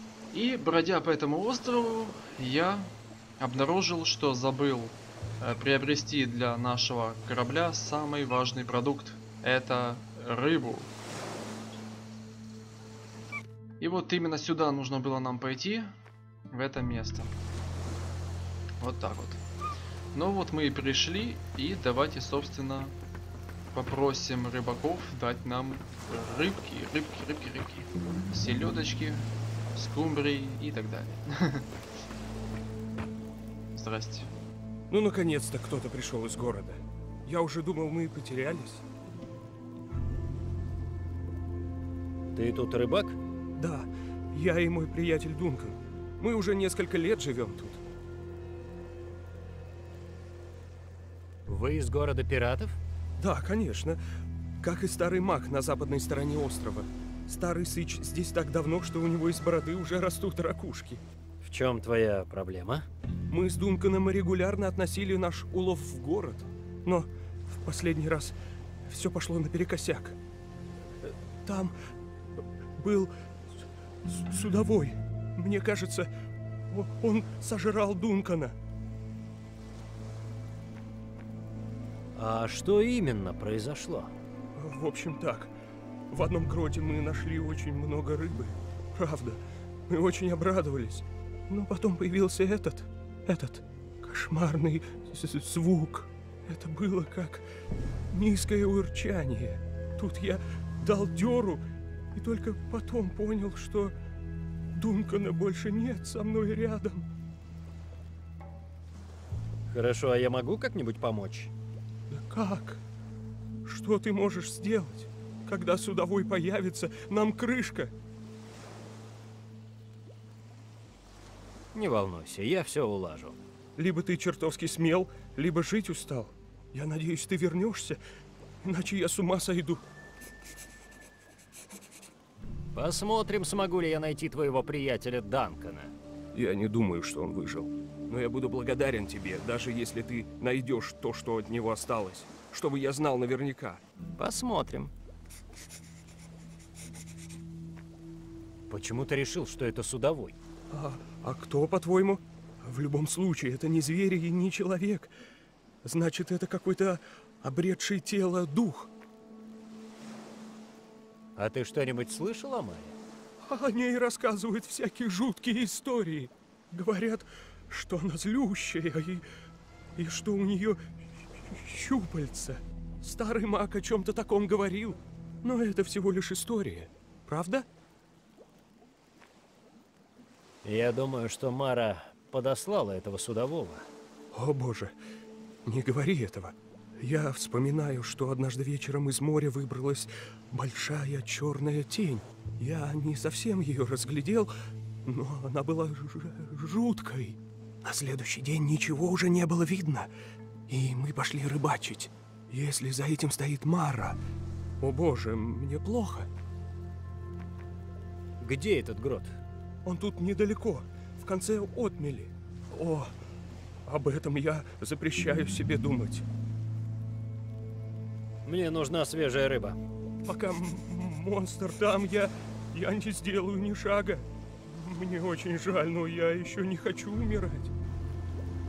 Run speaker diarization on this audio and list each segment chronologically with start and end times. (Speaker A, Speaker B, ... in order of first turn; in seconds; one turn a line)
Speaker A: 0.3-10.9
Speaker A: 13.8-15.9
Speaker A: 16.5-17.3
Speaker A: 18.8-19.4
Speaker A: 20.1-22.9
Speaker A: 23.7-31.7
Speaker A: 33.7-34.3
Speaker B: 34.9-38.8
Speaker C: 42.3-43.2
Speaker B: 43.6-47.8
Speaker C: 51.5-52.8
Speaker B: 53.2-54.0
Speaker B: 54.6-61.0
Speaker C: 61.4-62.9
Speaker B: 63.3-68.3
Speaker B: 68.9-70.2
Speaker B: 71.0-71.8
Speaker B: 72.8-73.1
Speaker B: 74.0-76.1
Speaker B: 76.7-78.5
Speaker C: 82.2-84.1
Speaker B: 84.6-85.5
Speaker B: 86.1-97.5
Speaker B: 98.1-101.6
Speaker B: 102.2-103.9
Speaker B: 104.8-107.0
Speaker C: 109.7-111.5
Speaker B: 112.1-112.8
Speaker B: 113.7-117.9
Speaker C: 121.7-123.4
Speaker B: 123.8-128.0
Speaker B: 128.6-129.8
Speaker C: 132.7-135.9
Speaker B: 136.3-143.8
Speaker C: 144.2-144.9
Speaker C: 148.7-150.4
Speaker B: 150.7-155.1
Speaker B: 155.8-158.9
Speaker C: 161.4-163.0
Speaker B: 163.4-169.2
Speaker B: 170.0-170.8
Speaker B: 171.4-177.7
Speaker C: 180.6-183.9
Speaker B: 184.3-184.9
Speaker B: 185.7-194.5
Speaker B: 195.1-200.1
Speaker B: 200.7-204.2
Speaker B: 204.8-206.3
Speaker C: 208.4-209.4
Speaker B: 209.8-213.2
Speaker B: 213.9-216.2
Speaker C: 218.4-219.8
Speaker B: 220.2-227.7